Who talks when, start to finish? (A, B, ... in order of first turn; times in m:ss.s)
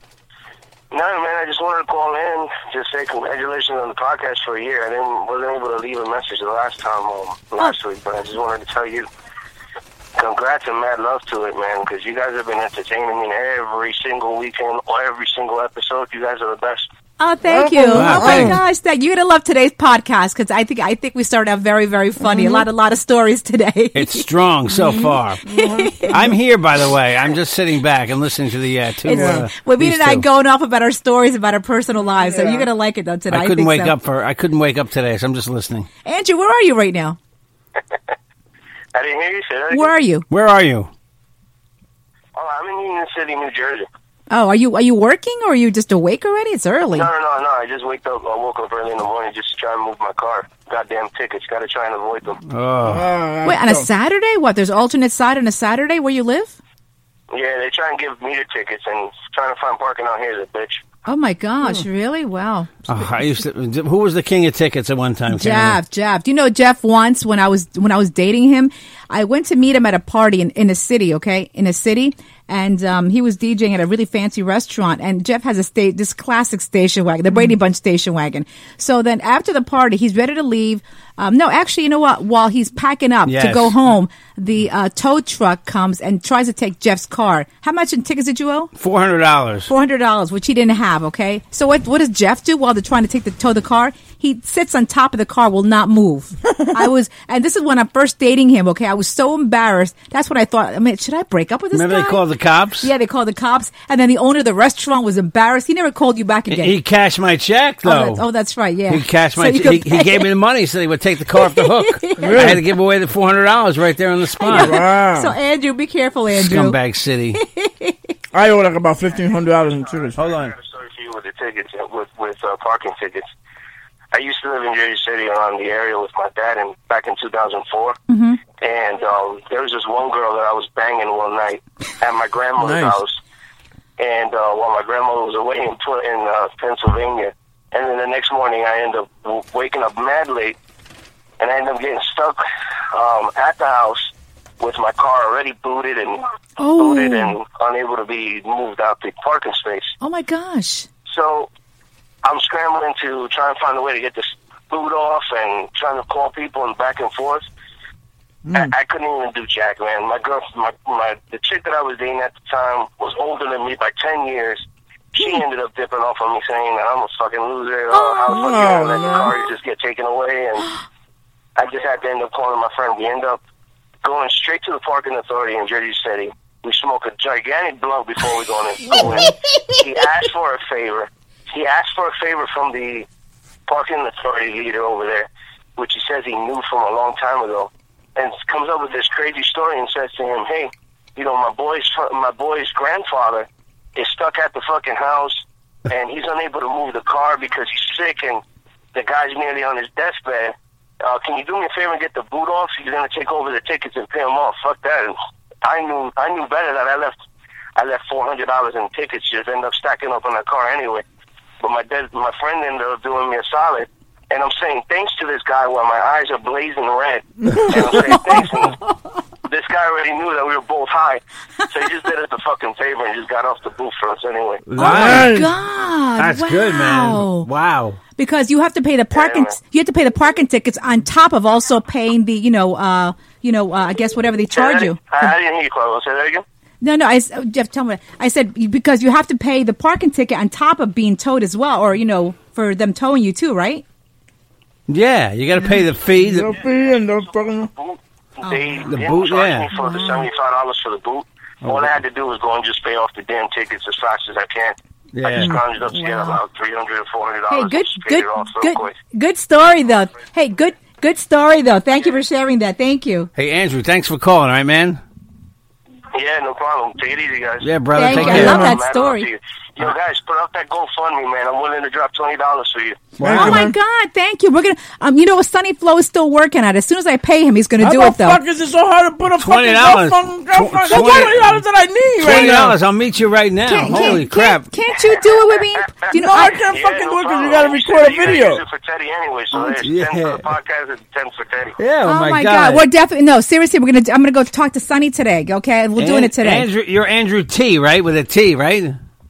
0:00.9-0:09.1 A
0:10.2-0:16.9 A
0:17.2-0:24.3 B
0:17.5-0:18.6 C
0:17.9-0:18.6 D
0:22.2-0:22.7 C
0:23.9-0:25.4 D
0:24.8-0:26.4 C
0:25.5-0:26.1 B
0:26.1-0:30.3 D
0:29.0-0:33.9 B
0:29.1-0:29.4 C
0:32.1-0:32.7 C
0:33.3-0:35.9 D
0:36.0-0:37.2 B
0:38.9-0:39.9 A
0:39.7-0:40.3 B
0:40.3-0:40.9 D
0:42.4-0:43.9 A
0:44.3-0:47.1 B
0:46.9-0:52.4 A
0:52.5-0:53.1 D
0:52.8-0:53.9 C
0:53.4-0:56.6 B
0:57.3-1:00.8 A
1:01.1-1:03.1 B
1:02.9-1:05.8 D
1:05.3-1:28.7 B
1:23.3-1:23.7 D
1:28.8-1:29.7 D
1:29.7-1:42.2 B
1:41.7-1:42.9 D
1:42.8-1:46.8 B
1:46.5-1:48.3 D
1:47.8-1:50.3 B
1:48.9-1:54.8 D
1:51.4-1:52.4 B
1:52.2-1:52.6 C
1:54.4-1:56.8 B
1:54.5-1:55.4 C
1:56.3-1:57.4 D
1:57.4-1:58.0 B
1:58.3-2:00.3 C
2:00.2-2:00.5 D
2:00.5-2:03.3 A
2:04.1-2:08.0 A
2:08.1-2:08.4 B
2:08.6-2:13.2 A
2:12.6-2:13.0 C
2:14.0-2:20.6 A
2:21.4-2:22.4 A
2:22.9-2:29.9 A
2:26.6-2:27.4 B
2:30.0-2:30.9 B
2:31.1-2:31.5 A
2:32.2-2:37.4 A
2:38.5-2:44.6 A
2:45.1-2:50.7 A
2:47.9-2:48.5 B
2:48.3-2:49.4 C
2:49.0-2:49.3 B
2:51.6-2:53.4 A
2:54.0-3:03.1 A
2:58.8-2:59.8 B
3:03.7-3:18.4 A
3:18.9-3:27.2 A
3:27.8-3:31.0 A
3:31.6-3:38.8 A
3:37.5-3:38.0 C
3:38.1-3:38.9 B
3:39.5-3:44.6 A
3:44.7-3:45.3 D
3:44.8-3:45.5 C
3:44.8-3:47.5 B
3:46.2-3:48.0 D
3:48.2-3:55.3 B
3:49.1-3:49.6 A
3:54.5-3:56.4 A
3:56.8-4:03.8 B
4:04.9-4:06.5 D
4:06.2-4:07.7 C
4:07.8-4:19.0 A
4:08.4-4:08.9 B
4:08.8-4:09.7 D
4:09.7-4:10.3 B
4:11.6-4:11.9 D
4:15.1-4:15.6 D
4:15.9-4:16.4 B
4:17.5-4:23.3 B
4:23.4-4:25.0 D
4:26.1-4:33.2 A
4:27.6-4:28.7 D
4:28.0-4:29.3 B
4:28.1-4:28.7 C
4:33.2-4:33.7 D
4:33.2-4:33.7 C
4:33.3-4:38.4 B
4:37.8-4:42.8 C
4:39.4-4:41.6 D
4:40.9-4:41.2 B
4:42.2-4:44.7 D
4:43.7-4:46.6 B
4:43.9-4:44.2 C
4:46.1-4:48.6 C
4:46.6-4:51.7 A
4:49.6-4:50.5 D
4:51.8-4:52.8 D
4:52.1-4:56.7 B
4:56.0-4:59.0 D